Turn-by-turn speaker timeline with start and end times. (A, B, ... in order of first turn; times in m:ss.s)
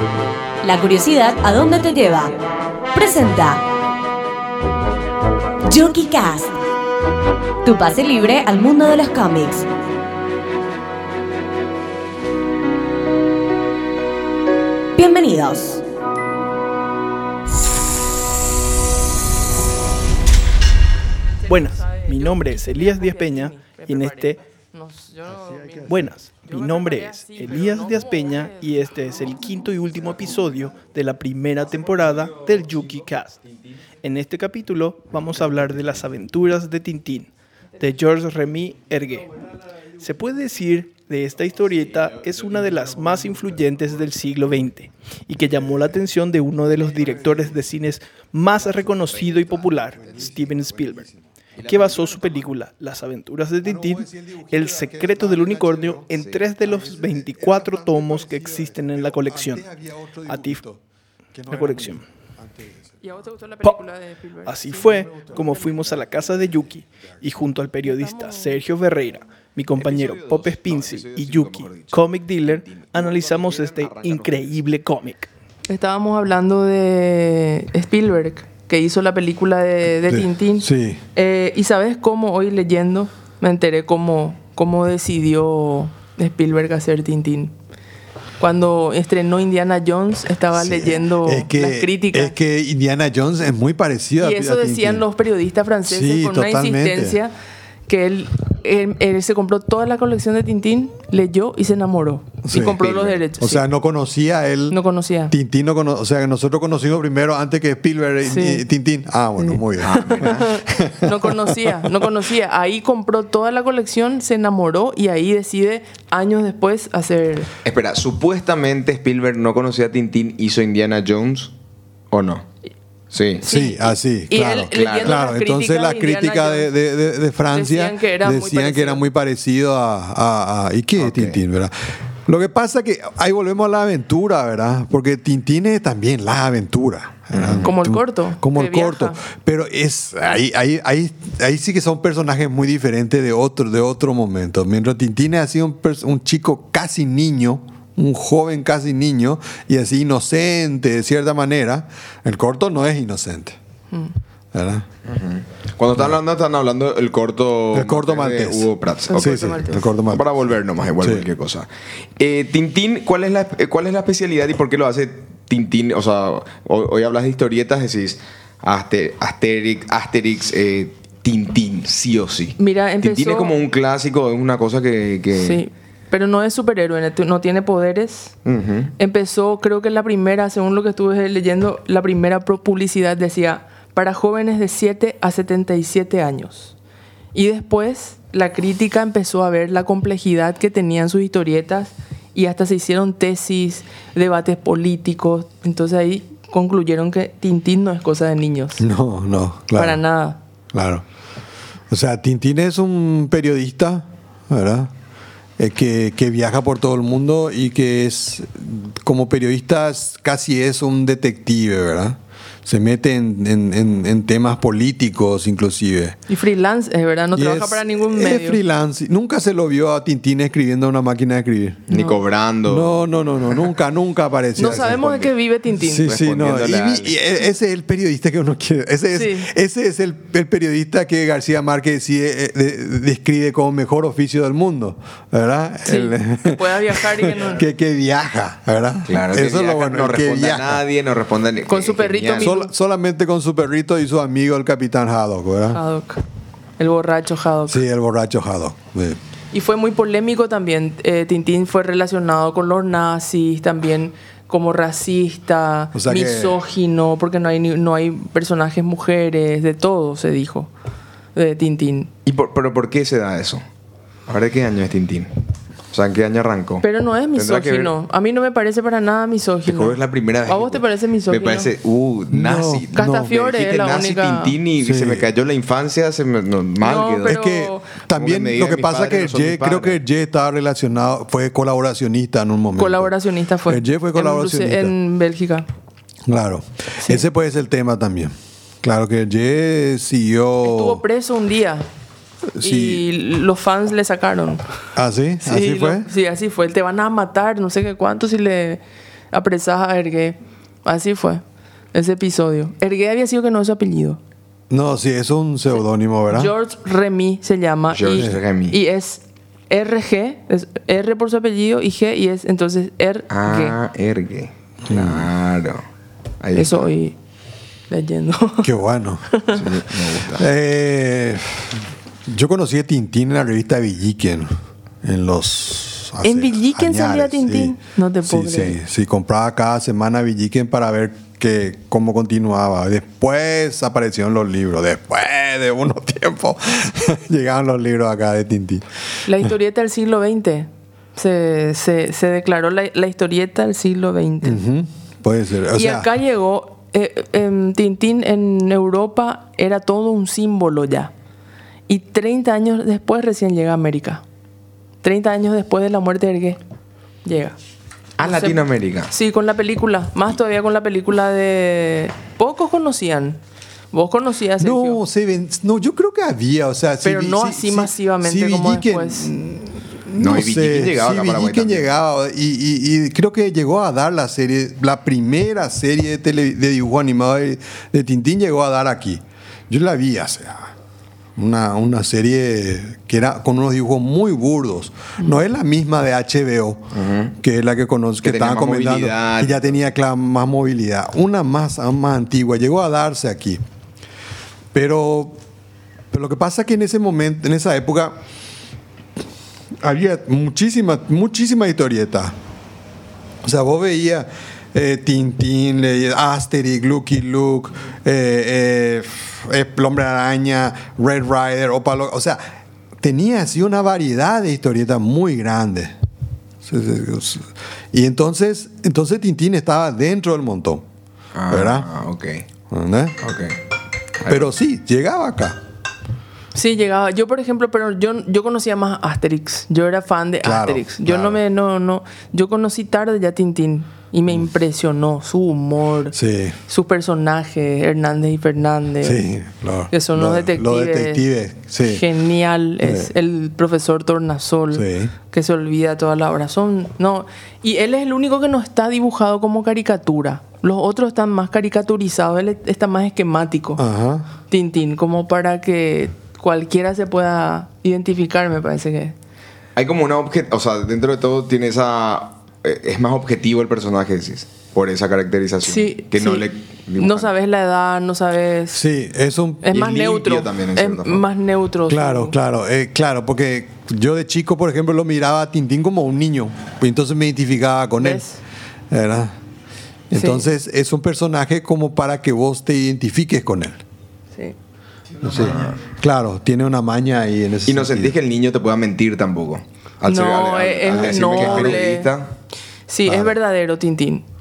0:00.6-0:02.4 A
0:02.9-0:03.6 A
0:05.7-0:06.5 A
0:07.6-0:09.6 A
0:15.0-0:15.8 A
0:21.4-0:29.6 B
0:21.5-0:24.4 C
0:25.3-0:26.1 D
0:25.9-0:33.4 C
0:31.7-0:33.7 E
0:34.0-0:39.4 C
0:40.0-0:51.1 C
0:42.4-0:42.7 E
0:46.7-0:47.6 D
0:48.6-0:50.3 E
0:49.9-0:51.2 D
0:51.6-0:52.4 E
0:51.6-0:59.7 C
0:53.6-1:00.8 D
0:56.1-0:56.4 E
1:00.3-1:00.6 C
1:01.3-1:03.2 D
1:01.5-1:02.0 C
1:03.0-1:05.7 B
1:04.4-1:15.3 C
1:04.7-1:06.6 D
1:07.8-1:08.6 B
1:09.7-1:14.6 E
1:15.7-1:27.5 B
1:20.0-1:21.0 D
1:28.4-1:32.3 B
1:30.5-1:35.0 D
1:34.2-1:37.3 B
1:35.8-1:37.2 D
1:37.9-1:43.6 B
1:42.4-1:42.8 D
1:42.8-1:43.2 E
1:43.4-1:52.1 D
1:44.7-1:45.3 B
1:48.2-1:48.6 B
1:49.4-1:57.5 B
1:49.8-1:50.5 E
1:57.6-2:01.5 E
2:02.1-2:02.4 E
2:03.1-2:03.4 E
2:03.4-2:06.7 B
2:03.4-2:11.7 D
2:04.7-2:05.2 E
2:07.5-2:09.0 B
2:11.0-2:11.4 E
2:12.2-2:33.6 D
2:17.3-2:17.7 E
2:17.6-2:19.2 B
2:34.5-2:34.8 D
2:35.0-2:41.7 E
2:37.7-2:41.3 D
2:39.1-2:39.9 B
2:42.2-2:55.6 E
2:52.6-2:53.5 B
2:55.3-2:58.3 B
2:58.4-2:58.9 E
2:59.0-3:06.7 B
3:07.3-3:18.8 B
3:18.8-3:20.0 D
3:19.7-3:20.4 B
3:20.7-3:21.0 D
3:21.9-3:24.9 D
3:25.6-3:36.2 D
3:36.3-3:38.6 B
3:37.3-3:41.9 D
3:41.9-3:42.2 B
3:41.9-3:43.1 E
3:42.7-4:00.8 D
3:44.6-3:46.1 B
3:44.6-3:45.3 E
3:46.0-3:47.1 E
3:49.1-3:49.5 B
3:55.8-3:57.7 B
3:59.1-4:02.5 E
4:01.7-4:02.7 B
4:02.3-4:05.8 D
4:05.7-4:06.2 B
4:06.8-4:07.8 B
4:07.7-4:09.2 D
4:09.5-4:20.7 B
4:15.9-4:16.6 D
4:21.3-4:22.1 B
4:22.2-4:23.6 E
4:24.3-4:25.3 E
4:25.9-4:27.9 E
4:26.8-4:31.7 B
4:29.6-4:37.4 E
4:32.3-4:33.4 D
4:32.9-4:34.6 B
4:34.8-4:35.3 D
4:36.8-4:37.9 B
4:37.2-4:43.1 D
4:38.1-4:40.0 E
4:42.8-4:45.7 B
4:43.6-4:44.9 D
4:46.3-4:51.0 D
4:50.6-4:51.8 B
4:52.5-4:53.1 D
4:52.6-4:54.6 B
4:55.0-4:56.1 D
4:55.4-5:01.4 B
5:01.9-5:04.2 B
5:04.7-5:06.5 D
5:06.3-5:13.8 B
5:07.9-5:08.8 E
5:08.2-5:08.4 D
5:13.3-5:15.8 E
5:14.9-5:15.3 D
5:16.4-5:16.8 E
5:16.5-5:17.2 B
5:17.9-5:18.7 B
5:18.6-5:19.3 D
5:19.3-5:19.6 B
5:19.5-5:20.5 E
5:20.3-5:24.5 D
5:25.0-5:38.8 D
5:26.2-5:28.8 B
5:39.2-5:44.6 B
5:44.4-5:46.1 D
5:45.7-5:51.1 B
5:51.9-5:54.2 B
5:55.0-5:56.6 B
5:57.2-5:57.6 B
5:58.2-5:59.1 E
5:58.2-6:03.4 B
6:03.9-6:05.0 B
6:04.6-6:20.7 D
6:07.0-6:09.4 B
6:10.2-6:11.9 E
6:21.4-6:26.9 D
6:26.9-6:27.3 E
6:27.4-6:33.6 D
6:28.2-6:29.7 E
6:34.7-6:35.4 D
6:36.1-6:38.1 D
6:39.8-6:42.3 D
6:43.4-6:55.9 D
6:56.6-7:00.8 D
7:01.3-7:02.4 E
7:01.5-7:01.9 D
7:02.7-7:03.2 D
7:03.2-7:03.6 E
7:04.2-7:04.6 E
7:04.3-7:05.6 D
7:06.5-7:19.2 B
7:10.4-7:11.4 D
7:16.1-7:16.6 D
7:19.0-7:22.1 D
7:19.9-7:21.2 B
7:21.8-7:33.8 B
7:22.8-7:23.1 D
7:24.7-7:25.1 D
7:33.8-7:34.3 D
7:34.5-7:39.1 B
7:39.8-7:47.3 E
7:45.6-7:48.8 B
7:48.7-7:49.9 D
7:49.6-7:52.3 B
7:49.7-7:51.3 E
7:51.9-7:58.3 D
7:58.0-7:58.4 B
7:58.9-7:59.3 D
8:00.1-8:03.8 D
8:00.1-8:00.5 B
8:05.2-8:08.2 D
8:05.3-8:05.8 E
8:07.6-8:12.3 E
8:10.0-8:12.1 B
8:10.9-8:11.8 D
8:12.9-8:14.2 B
8:13.0-8:13.4 D